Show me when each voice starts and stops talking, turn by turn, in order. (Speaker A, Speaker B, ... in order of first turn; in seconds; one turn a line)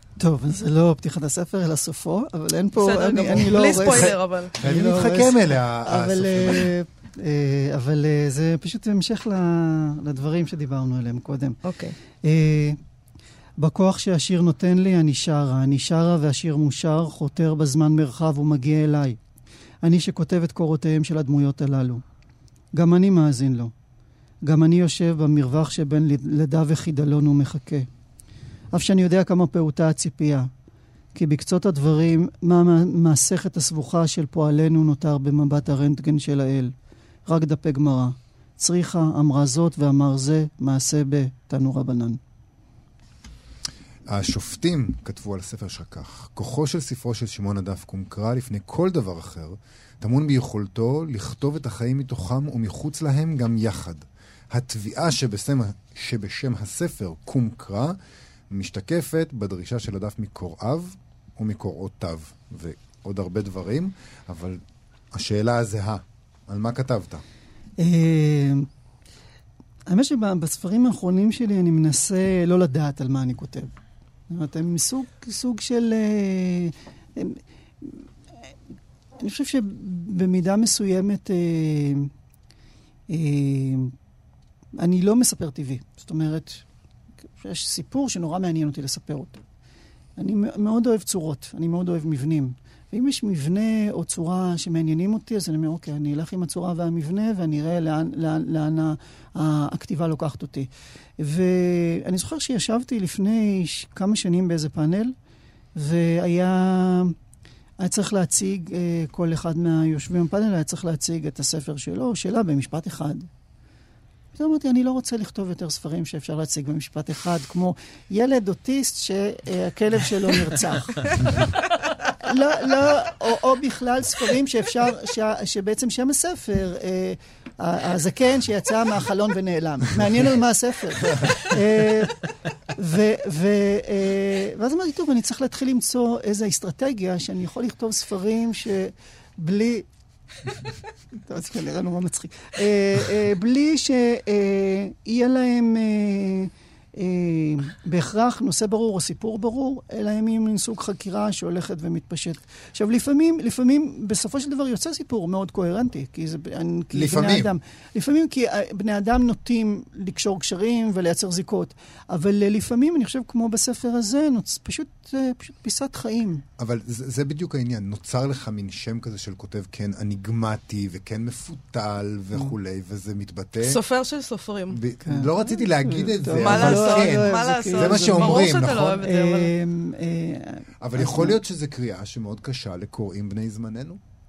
Speaker A: 0.2-11.6
Speaker B: 2.8-4.6
Speaker C: 3.7-6.7
Speaker B: 11.6-11.9
Speaker A: 12.2-12.8
Speaker A: 13.6-19.2
Speaker A: 19.8-22.0
Speaker A: 22.7-23.7
Speaker A: 24.4-27.9
Speaker A: 28.7-30.5
Speaker A: 31.1-36.7
Speaker A: 37.2-42.2
Speaker C: 44.1-58.0
Speaker C: 58.5-64.6
Speaker C: 65.1-67.2
Speaker A: 67.8-68.7
Speaker A: 69.9-73.7
Speaker A: 74.3-78.1
Speaker A: 79.2-82.1
Speaker A: 83.1-83.9
Speaker A: 84.8-86.6
Speaker A: 87.2-89.4
Speaker A: 90.2-105.1
Speaker A: 105.8-107.2
Speaker A: 107.8-113.3
Speaker A: 114.3-121.3
Speaker B: 121.3-121.7
Speaker A: 122.2-139.9
Speaker A: 141.2-166.4
Speaker C: 156.9-157.5
Speaker C: 166.6-173.8
Speaker B: 173.6-174.8
Speaker C: 174.7-179.1
Speaker A: 175.0-181.4
Speaker B: 176.4-179.5
Speaker C: 180.8-184.0